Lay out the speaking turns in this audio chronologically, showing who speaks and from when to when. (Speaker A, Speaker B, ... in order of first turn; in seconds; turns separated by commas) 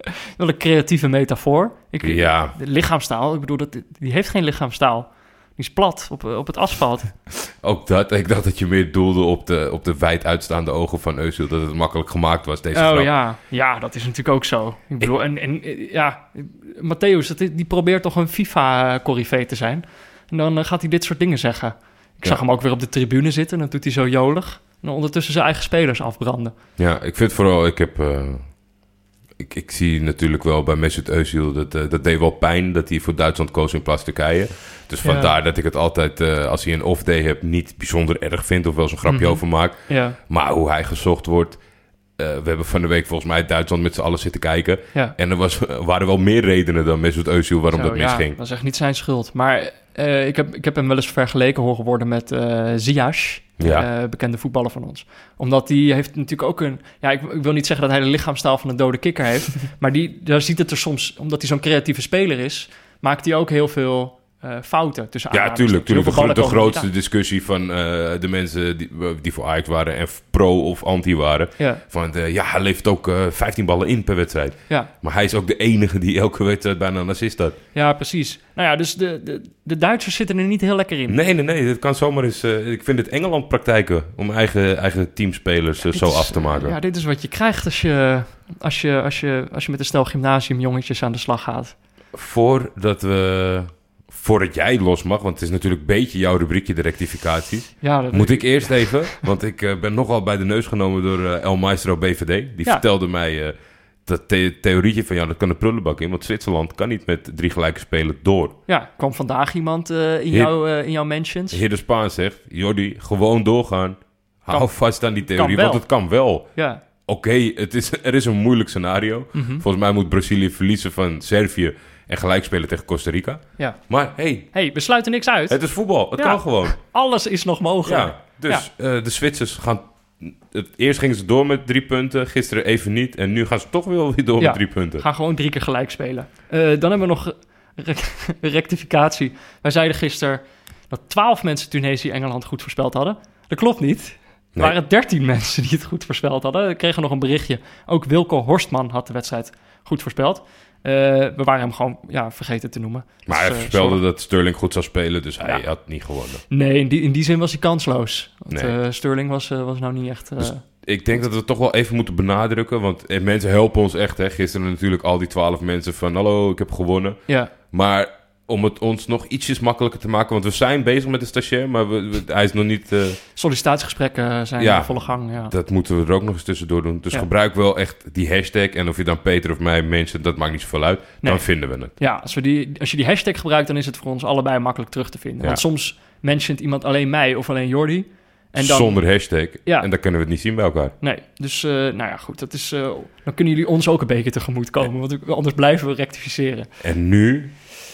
Speaker A: 0.2-7.1, Speaker B: 2.0-2.5, Speaker B: 7.4-13.1, Speaker A: 12.7-26.6, Speaker B: 26.8-28.6, Speaker B: 29.4-41.6, Speaker A: 35.0-35.3, Speaker A: 39.0-40.2, Speaker B: 42.2-48.4, Speaker A: 47.7-66.9, Speaker B: 53.6-53.9, Speaker B: 65.3-77.6, Speaker A: 77.7-81.2, Speaker B: 81.1-86.8, Speaker A: 85.9-91.8, Speaker B: 92.1-108.6, Speaker A: 97.8-99.2, Speaker A: 108.7-111.6, Speaker B: 111.5-116.5, Speaker A: 114.5-115.8, Speaker A: 116.5-116.8, Speaker B: 117.1-124.5, Speaker A: 119.3-119.6, Speaker A: 124.5-125.6, Speaker B: 125.5-126.8, Speaker A: 126.1-128.7, Speaker B: 127.8-135.1, Speaker A: 134.4-154.0, Speaker B: 153.3-156.4, Speaker A: 156.5-160.7, Speaker B: 158.5-158.8, Speaker B: 160.4-173.2, Speaker A: 173.4-175.5, Speaker B: 174.6-181.9, Speaker A: 181.2-189.0, Speaker B: 188.6-190.9, Speaker A: 191.0-196.7, Speaker B: 196.8-197.6